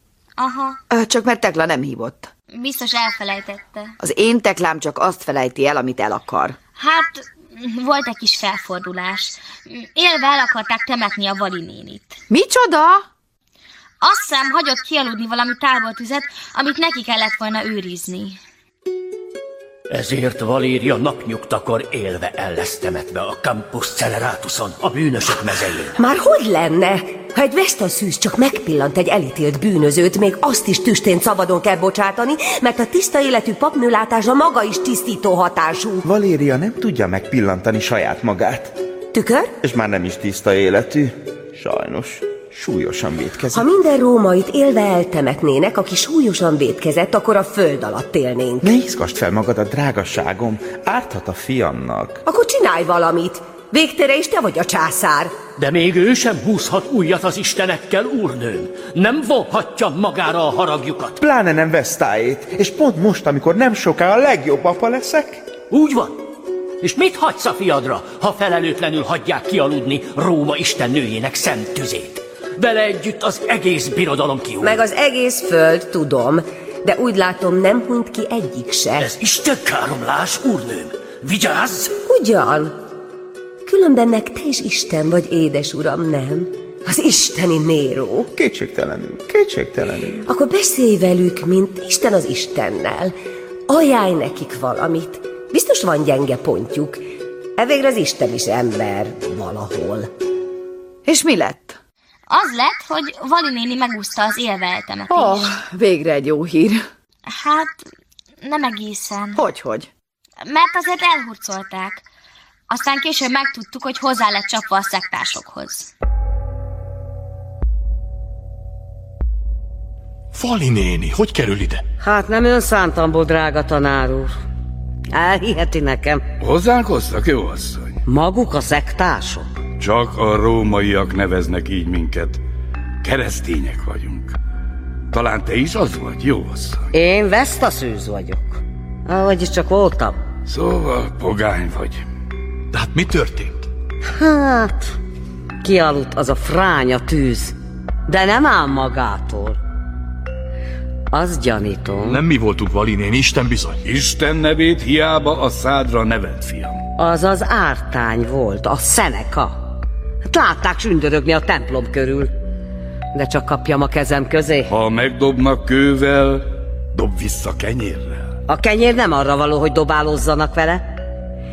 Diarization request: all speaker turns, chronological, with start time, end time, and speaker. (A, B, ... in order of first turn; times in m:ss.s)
0:00.4-0:00.8 A
0:00.9-0:02.3 B
0:02.5-0:03.9 A
0:04.0-0:06.6 B
0:06.8-0:12.2 A
0:12.3-0:13.1 B
0:14.0-0:18.4 A
0:19.9-0:26.0 C
0:26.0-0:36.1 D
0:36.1-0:38.8 E
0:39.1-0:39.5 D
0:39.6-0:43.6 E
0:43.5-0:48.6 D
0:48.6-0:52.2 E
0:52.2-0:55.3 D
0:55.6-1:01.2 C
1:01.2-1:05.4 E
1:05.7-1:06.2 C
1:06.8-1:14.8 C
1:14.6-1:19.1 D
1:19.0-1:22.0 C
1:22.0-1:22.8 D
1:23.6-1:28.3 D
1:28.3-1:30.3 E
1:30.2-1:33.1 D
1:33.7-1:37.0 D
1:37.6-1:40.1 D
1:41.0-1:41.8 B
1:42.3-1:45.5 A
1:45.1-1:46.8 B
1:47.3-1:47.8 A
1:48.4-1:49.4 A
1:49.4-1:49.9 B
1:50.4-1:52.0 A
1:52.7-1:55.9 A
2:00.3-2:01.8 F
2:02.0-2:04.3 G
2:05.1-2:06.2 G
2:06.4-2:08.0 H
2:08.1-2:09.5 G
2:09.8-2:12.4 H
2:13.0-2:14.4 H
2:15.1-2:16.9 H
2:16.9-2:20.2 G
2:20.5-2:22.0 H
2:22.7-2:23.7 F
2:24.1-2:24.8 G
2:25.6-2:27.6 G
2:28.1-2:29.6 G
2:31.1-2:32.2 G
2:32.1-2:33.8 F
2:33.8-2:36.8 H
2:37.0-2:39.7 G
2:40.3-2:42.3 G
2:43.1-2:44.7 G
2:44.7-2:48.3 H
2:48.5-2:50.8 G